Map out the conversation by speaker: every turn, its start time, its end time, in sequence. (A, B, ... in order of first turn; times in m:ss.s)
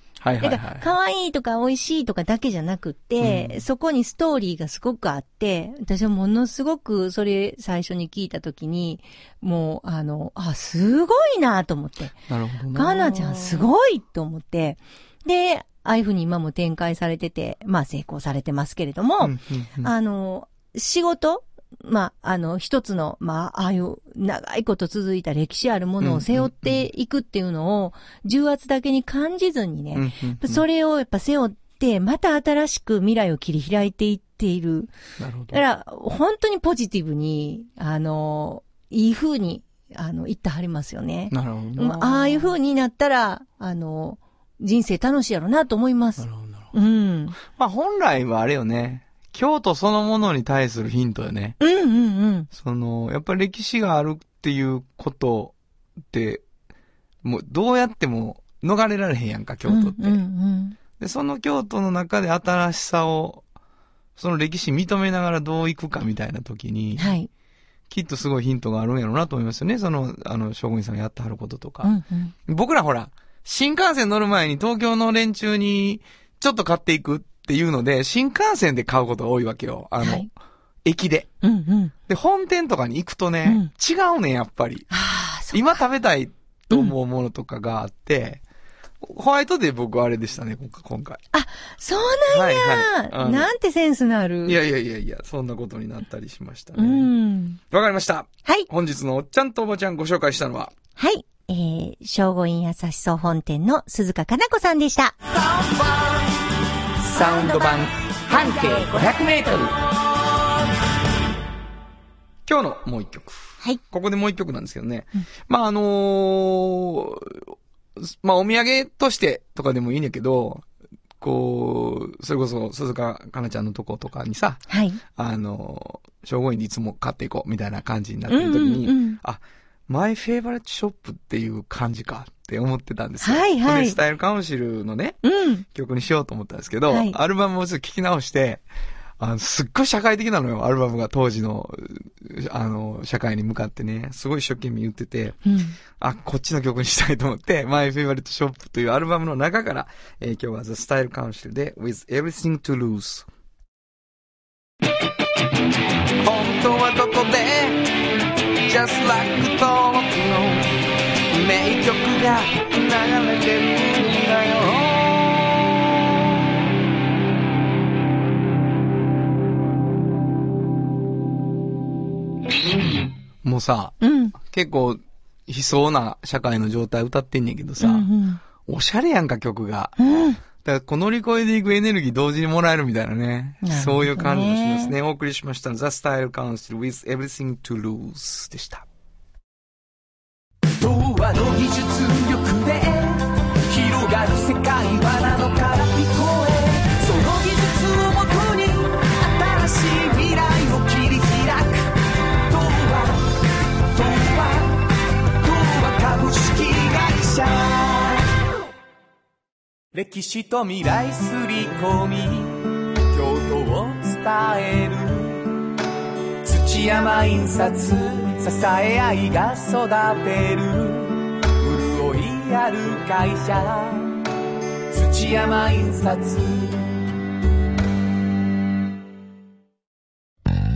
0:00.2-0:00.9 A
0:00.4-0:12.2 B
0:03.2-0:03.6 A
0:12.3-0:13.7 A
0:12.7-0:34.9 B
0:19.2-0:19.9 A
0:26.0-0:26.8 A
0:30.0-0:30.6 A
0:35.2-0:35.6 A
0:35.5-0:47.4 B
0:41.3-0:42.5 A
0:46.2-0:46.7 A
0:47.5-0:51.6 A
0:51.6-0:52.5 B
0:52.5-0:55.5 A
0:56.1-0:56.4 A
0:57.2-1:00.2 A
0:59.7-1:00.8 B
1:01.0-1:03.4 A
1:04.2-1:07.1 A
1:07.0-1:07.3 B
1:07.9-1:11.9 A
1:11.8-1:12.3 B
1:12.5-1:20.3 A
1:20.0-1:20.3 B
1:20.8-1:21.3 A
1:21.4-1:21.9 B
1:22.1-1:24.9 A
1:23.4-1:23.7 B
1:24.9-1:25.8 B
1:25.5-1:28.4 A
1:29.0-1:31.2 A
1:31.3-1:34.6 B
1:32.3-1:33.5 A
1:34.5-1:37.1 A
1:36.8-1:37.6 B
1:37.7-1:40.7 A
1:41.0-1:45.2 B
1:45.4-1:46.3 C
1:47.1-1:49.3 C
1:47.1-1:49.8 A
1:47.1-1:47.8 B
1:48.3-1:49.2 B
1:52.5-2:00.6 A
2:01.2-2:15.2 A
2:04.7-2:05.0 B
2:08.3-2:09.2 B
2:13.2-2:14.0 B
2:15.2-2:15.6 B
2:15.8-2:18.6 A
2:16.9-2:17.2 B
2:19.2-2:25.4 A
2:25.5-2:25.8 B
2:26.0-2:33.3 A
2:36.2-2:37.9 A
2:38.7-2:40.7 A
2:41.3-2:45.7 A
2:53.4-2:58.1 A
2:54.0-2:54.4 B
2:57.8-2:58.4 B
2:58.6-3:00.0 A
3:00.0-3:00.4 B
3:00.6-3:08.8 A
3:03.6-3:04.9 B
3:10.8-3:21.9 C
3:22.4-3:23.2 C
3:23.9-3:24.8 C
3:25.4-3:28.2 C
3:29.9-3:35.4 C
3:36.4-3:44.2 C
3:44.9-3:46.9 C